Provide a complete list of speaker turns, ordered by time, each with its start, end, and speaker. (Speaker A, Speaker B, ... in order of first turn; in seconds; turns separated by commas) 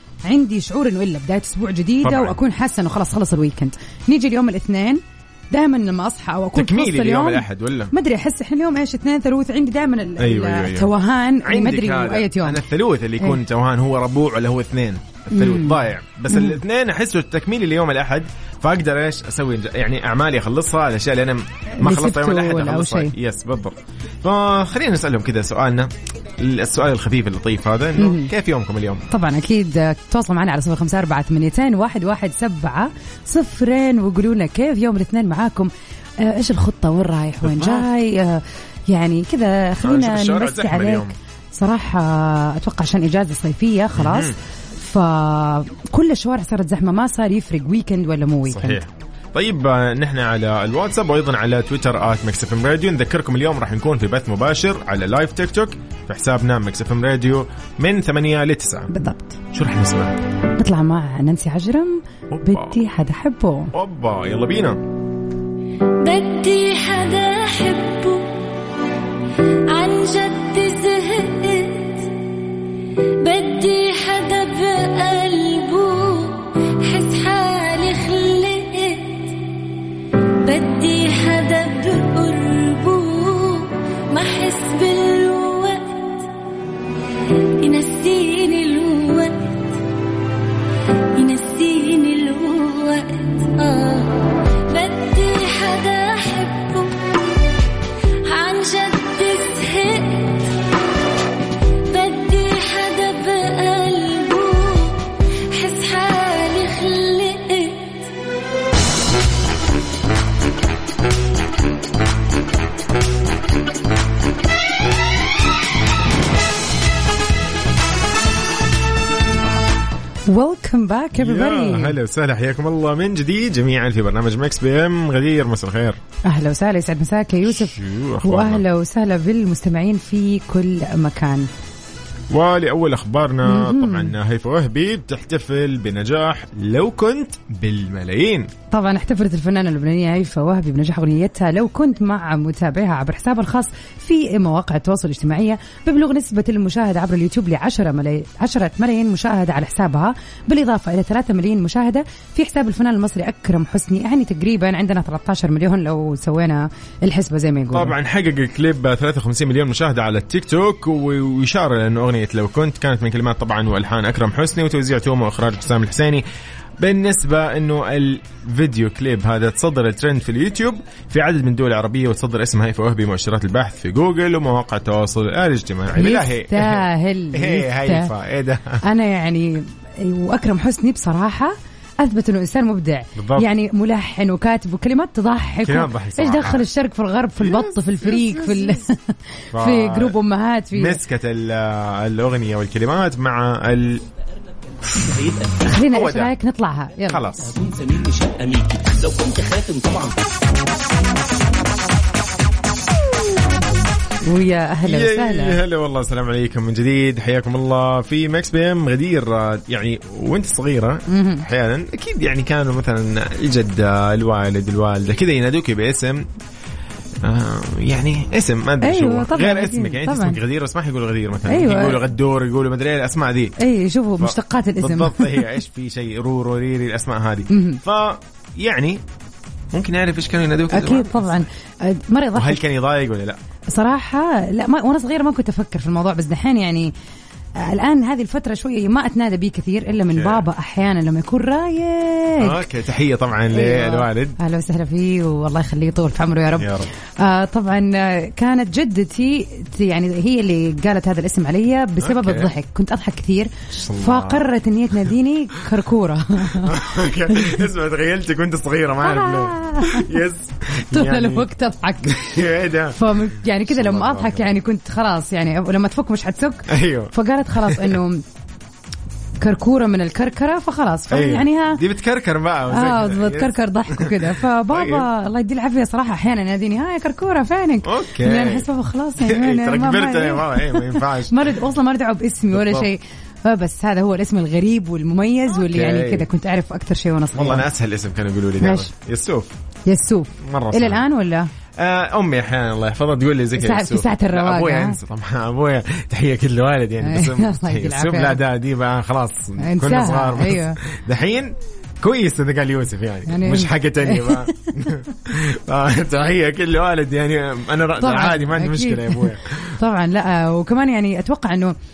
Speaker A: 0.2-12.6, Speaker B: 2.0-2.4, Speaker B: 6.5-7.9, Speaker B: 10.2-29.0, Speaker A: 15.3-15.8, Speaker A: 16.3-16.6, Speaker A: 21.8-23.1, Speaker A: 28.0-28.3, Speaker A: 29.1-48.8, Speaker B: 37.4-37.9, Speaker B: 39.8-41.1, Speaker B: 44.0-44.4, Speaker B: 48.5-58.9, Speaker A: 58.9-59.4, Speaker B: 59.5-60.2, Speaker A: 60.6-63.7, Speaker B: 62.3-62.8, Speaker B: 63.7-64.8, Speaker C: 66.0-68.3, Speaker C: 69.7-72.1, Speaker C: 73.2-79.4, Speaker C: 80.4-86.3, Speaker C: 87.6-89.7, Speaker C: 91.2-97.5, Speaker C: 98.2-100.5, Speaker C: 101.9-108.1, Speaker A: 120.3-122.0, Speaker B: 121.2-126.0, Speaker A: 126.2-131.5, Speaker B: 127.5-128.6, Speaker B: 132.3-138.5, Speaker A: 133.4-134.1, Speaker A: 138.7-157.9, Speaker B: 157.7-166.2, Speaker B: 166.8-178.8, Speaker A: 175.9-178.1, Speaker A: 178.8-191.0, Speaker B: 183.2-183.5, Speaker B: 185.6-186.7, Speaker B: 187.4-188.8, Speaker B: 189.5-190.2, Speaker B: 190.7-194.1, Speaker A: 195.5-197.3, Speaker B: 195.6-196.3, Speaker B: 197.1-197.7, Speaker D: 197.8-200.2, Speaker A: 204.2-205.6, Speaker B: 204.8-216.3, Speaker A: 211.1-211.4, Speaker B: 217.2-223.6, Speaker A: 218.8-220.4, Speaker A: 221.5-222.1, Speaker A: 223.6-225.5, Speaker B: 224.2-229.0, Speaker A: 227.5-227.8, Speaker B: 229.7-231.5, Speaker A: 230.7-232.6, Speaker B: 232.3-233.4, Speaker A: 233.7-236.9, Speaker A: 237.6-242.7, Speaker B: 240.0-240.5, Speaker B: 242.4-244.4, Speaker A: 243.5-256.8, Speaker B: 246.6-246.9, Speaker B: 252.0-252.5, Speaker B: 253.7-254.5, Speaker B: 256.5-261.5, Speaker A: 257.3-257.6, Speaker A: 259.0-260.1, Speaker A: 260.9-262.2, Speaker B: 262.0-264.5, Speaker A: 262.9-268.2, Speaker B: 266.7-268.0, Speaker A: 269.4-271.8, Speaker B: 271.1-275.1, Speaker A: 272.7-287.7, Speaker B: 277.8-281.6, Speaker B: 282.5-282.9, Speaker B: 285.5-286.3, Speaker B: 287.3-289.6, Speaker A: 288.6-288.9, Speaker A: 289.9-291.5, Speaker B: 290.4-291.1, Speaker B: 291.8-309.8, Speaker A: 293.6-295.0, Speaker A: 297.0-298.4, Speaker A: 299.6-300.8, Speaker A: 303.3-304.9, Speaker A: 308.0-311.7